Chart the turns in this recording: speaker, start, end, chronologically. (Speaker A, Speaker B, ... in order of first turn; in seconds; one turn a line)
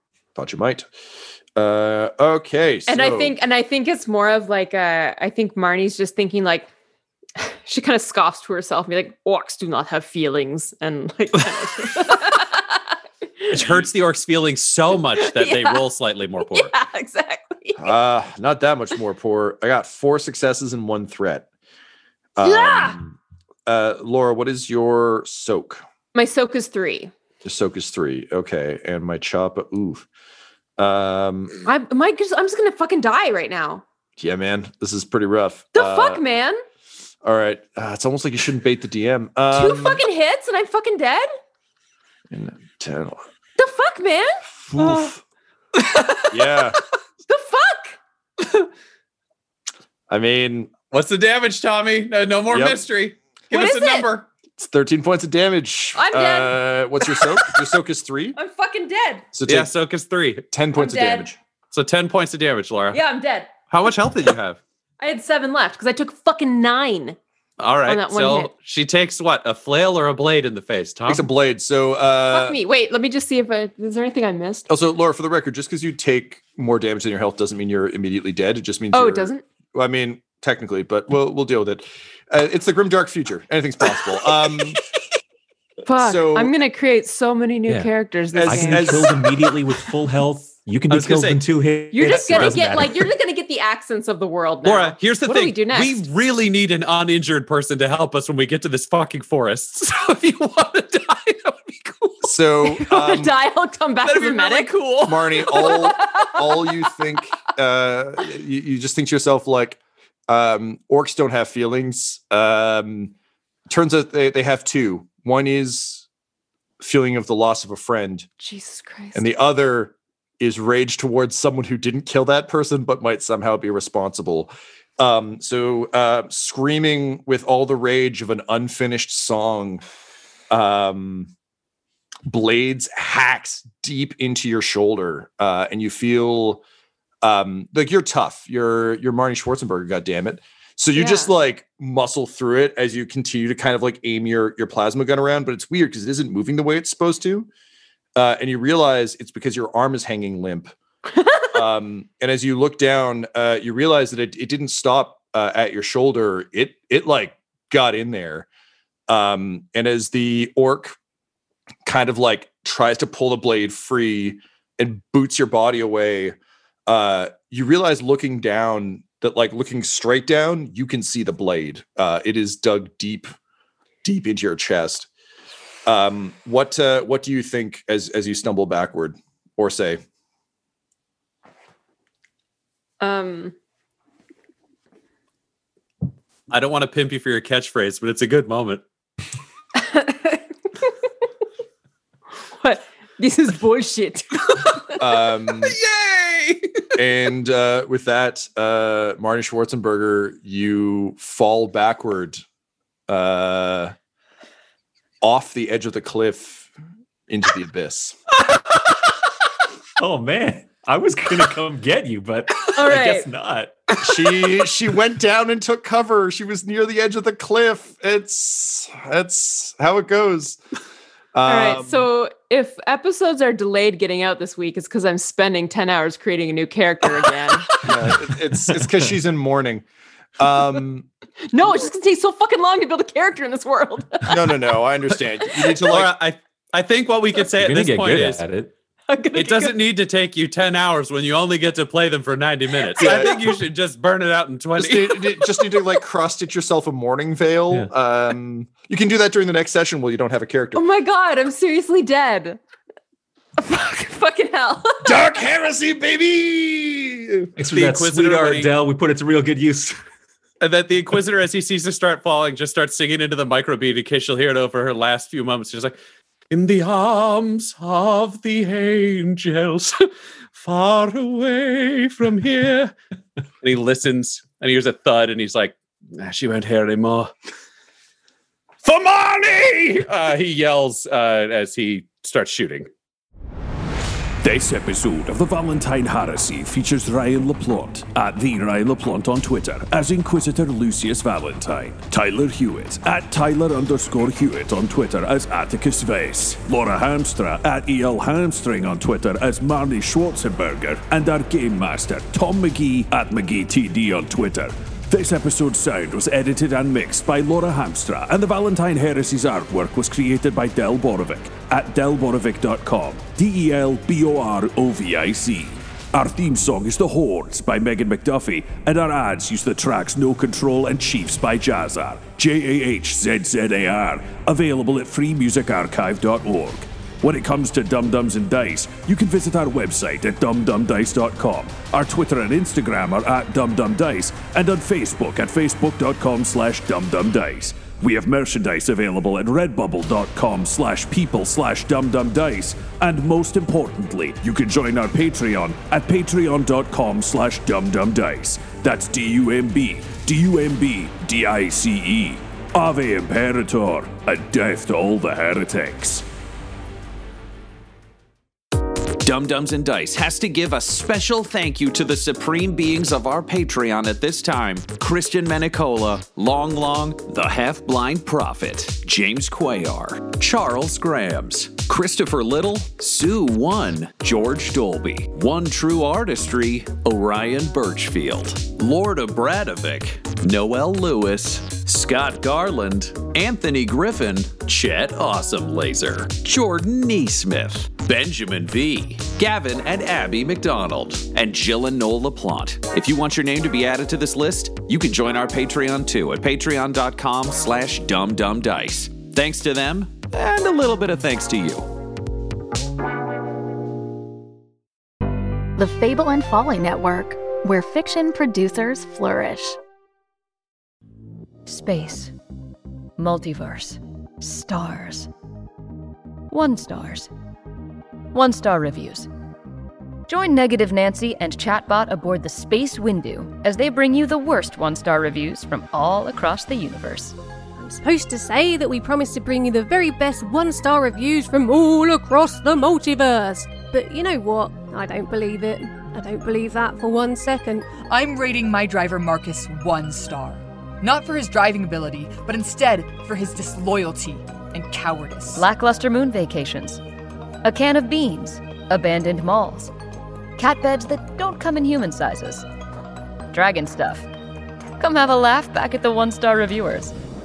Speaker A: 0.3-0.9
Speaker A: 1.6-3.4
Speaker B: 2.9-6.7
Speaker B: 7.4-13.8
Speaker C: 13.5-16.7
Speaker B: 15.2-15.8
Speaker B: 16.4-17.9
Speaker A: 17.8-21.5
Speaker A: 22.4-25.8
Speaker B: 22.4-23.0
Speaker B: 26.1-27.1
Speaker A: 27.4-30.1
Speaker A: 30.8-31.6
Speaker B: 31.6-33.8
Speaker A: 34.2-36.2
Speaker B: 35.7-36.6
Speaker A: 37.2-40.0
Speaker B: 39.5-41.3
Speaker A: 42.3-43.2
Speaker B: 43.6-45.1
Speaker A: 44.7-45.2
Speaker B: 45.8-46.4
Speaker A: 46.3-46.8
Speaker B: 47.3-48.0
Speaker A: 50.1-50.7
Speaker C: 50.9-54.3
Speaker A: 52.5-52.8
Speaker B: 53.5-54.1
Speaker A: 54.6-58.4
Speaker B: 55.9-57.6
Speaker B: 58.3-59.3
Speaker A: 59.3-59.7
Speaker C: 59.5-60.5
Speaker A: 60.5-61.4
Speaker B: 60.7-61.3
Speaker C: 61.7-63.0
Speaker B: 62.9-63.5
Speaker C: 63.7-64.6
Speaker B: 65.0-67.2
Speaker C: 67.6-71.3
Speaker B: 67.8-68.5
Speaker A: 71.1-72.6
Speaker B: 72.3-74.7
Speaker A: 74.7-84.8
Speaker B: 78.9-79.4
Speaker B: 85.8-89.4
Speaker A: 86.0-86.5
Speaker A: 88.3-89.3
Speaker D: 88.4-93.0
Speaker C: 90.9-91.4
Speaker B: 91.9-96.0
Speaker C: 92.1-92.7
Speaker C: 94.6-102.3
Speaker A: 102.2-103.3
Speaker B: 102.7-104.7
Speaker C: 104.0-105.7
Speaker A: 105.0-113.1
Speaker B: 105.5-106.8
Speaker A: 113.7-116.1
Speaker A: 116.8-118.3
Speaker B: 118.4-119.3
Speaker A: 119.1-129.8
Speaker A: 130.5-131.3
Speaker A: 132.3-136.6
Speaker A: 137.2-147.5
Speaker B: 140.9-141.3
Speaker A: 148.2-150.7
Speaker B: 151.2-151.5
Speaker A: 151.5-158.5
Speaker A: 159.1-160.9
Speaker A: 161.8-166.3
Speaker A: 166.9-173.3
Speaker A: 174.0-175.1
Speaker A: 175.8-180.0
Speaker B: 183.0-183.5
Speaker C: 186.5-188.8
Speaker B: 189.8-190.9
Speaker B: 192.5-195.1
Speaker A: 195.0-195.8
Speaker C: 195.8-196.7
Speaker A: 196.9-202.4
Speaker A: 203.1-203.9
Speaker A: 205.2-206.7
Speaker A: 207.3-208.2
Speaker D: 210.0-213.8
Speaker B: 212.8-213.3
Speaker A: 214.0-220.6
Speaker A: 221.3-222.1
Speaker B: 221.4-227.9
Speaker A: 227.8-229.8
Speaker A: 230.4-231.1
Speaker B: 231.5-234.6
Speaker A: 234.3-236.1
Speaker C: 235.8-238.4
Speaker D: 237.6-238.7
Speaker B: 239.1-239.8
Speaker C: 239.3-245.4
Speaker B: 242.8-243.6
Speaker A: 243.0-243.3
Speaker A: 244.8-250.8
Speaker B: 250.7-252.6
Speaker B: 253.6-255.3
Speaker A: 255.0-257.5
Speaker D: 257.6-259.9
Speaker C: 257.7-258.7
Speaker C: 260.6-265.9
Speaker C: 266.5-272.9
Speaker C: 273.6-277.3
Speaker C: 278.8-282.9
Speaker E: 284.4-356.2
Speaker F: 359.2-401.9
Speaker G: 405.8-409.8
Speaker H: 411.7-412.3
Speaker H: 413.2-415.3
Speaker H: 416.5-417.3
Speaker H: 418.3-419.3
Speaker H: 420.3-427.4
Speaker I: 427.8-437.9
Speaker J: 438.0-445.6
Speaker H: 445.5-447.0
Speaker H: 447.6-449.9
Speaker H: 450.6-452.7
Speaker H: 453.5-454.3
Speaker H: 455.0-457.1